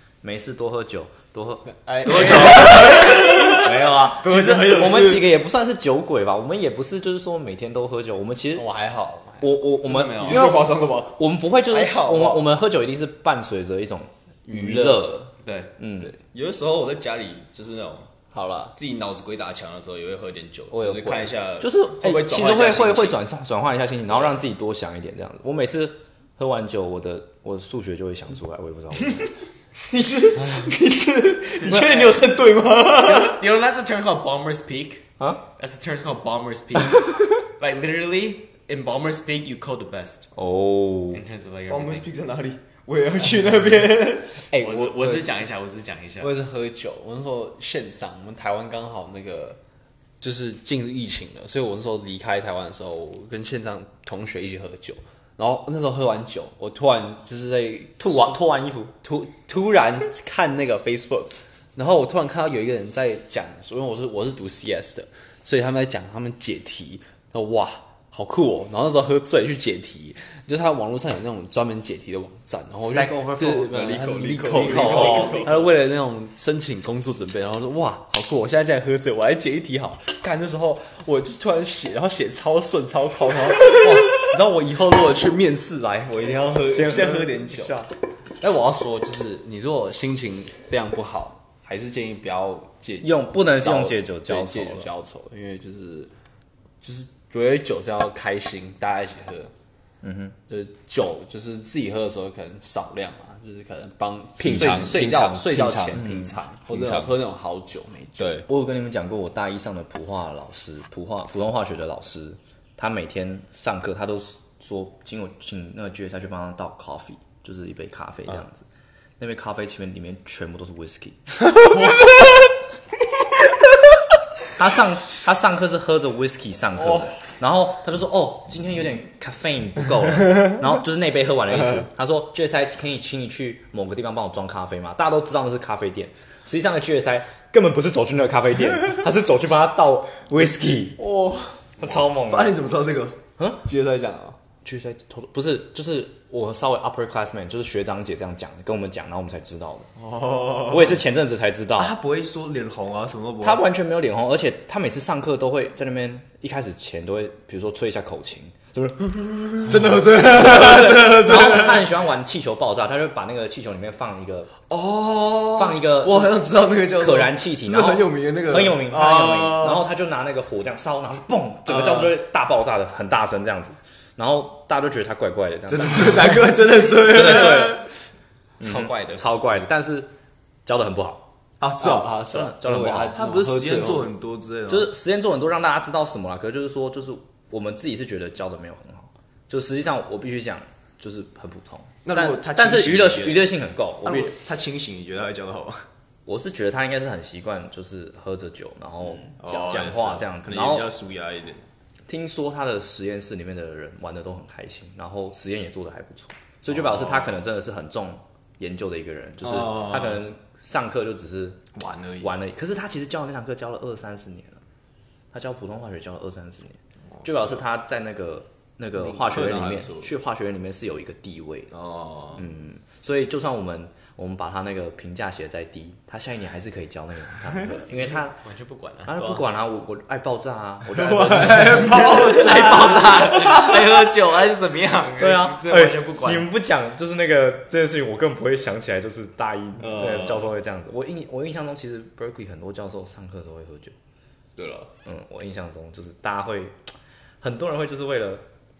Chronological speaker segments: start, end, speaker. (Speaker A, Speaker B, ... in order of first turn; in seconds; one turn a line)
Speaker A: 0.2-8.7
Speaker B: 1.9-5.3
Speaker C: 2.0-3.5
Speaker D: 8.5-9.6
Speaker A: 9.4-16.1
Speaker B: 9.8-12.5
Speaker B: 14.5-18.1
Speaker D: 18.3-18.8
Speaker B: 18.7-23.2
Speaker D: 20.7-21.3
Speaker A: 21.6-29.3
Speaker B: 29.8-33.4
Speaker C: 31.6-32.2
Speaker C: 33.0-35.1
Speaker A: 35.2-35.4
Speaker C: 35.6-40.3
Speaker A: 40.4-41.2
Speaker C: 41.1-42.1
Speaker B: 41.7-44.4
Speaker D: 44.5-45.3
Speaker C: 44.5-46.3
Speaker D: 46.2-49.6
Speaker D: 50.2-58.4
Speaker A: 58.0-58.9
Speaker D: 59.0-87.9
Speaker A: 72.9-73.9
Speaker B: 73.7-75.7
Speaker A: 74.4-75.5
Speaker A: 86.7-87.8
Speaker D: 88.4-96.1
Speaker A: 93.0-94.9
Speaker D: 96.8-99.5
Speaker A: 100.0-100.3
Speaker D: 100.5-108.5
Speaker B: 104.4-107.1
Speaker A: 104.4-104.9
Speaker A: 106.0-106.2
Speaker B: 108.2-108.5
Speaker A: 108.5-118.6
Speaker A: 119.2-121.2
Speaker A: 124.5-141.0
Speaker D: 141.1-141.4
Speaker A: 141.8-142.6
Speaker B: 141.8-143.2
Speaker A: 143.4-143.6
Speaker D: 143.6-144.4
Speaker A: 144.6-149.9
Speaker B: 150.0-151.0
Speaker A: 150.7-152.0
Speaker B: 151.8-153.7
Speaker A: 153.4-164.5
Speaker B: 159.6-161.9
Speaker B: 164.7-169.8
Speaker A: 165.5-177.8
Speaker B: 171.7-172.1
Speaker B: 175.7-177.9
Speaker B: 178.6-179.2
Speaker A: 178.6-180.1
Speaker A: 180.7-181.3
Speaker B: 181.6-182.1
Speaker D: 181.8-184.1
Speaker A: 182.2-183.2
Speaker B: 183.1-184.9
Speaker A: 184.7-194.3
Speaker B: 192.0-195.8
Speaker A: 196.2-200.9
Speaker B: 199.4-201.6
Speaker A: 202.1-211.6
Speaker B: 206.7-207.4
Speaker B: 209.4-210.2
Speaker B: 211.7-212.3
Speaker A: 212.2-214.6
Speaker A: 215.3-221.7
Speaker B: 217.1-217.6
Speaker B: 218.9-220.1
Speaker B: 221.7-222.4
Speaker A: 222.3-228.4
Speaker C: 227.9-229.4
Speaker A: 229.1-232.3
Speaker B: 230.9-233.8
Speaker C: 231.7-236.5
Speaker A: 235.2-243.9
Speaker B: 239.8-240.5
Speaker B: 244.6-244.9
Speaker A: 245.0-246.8
Speaker A: 247.4-248.4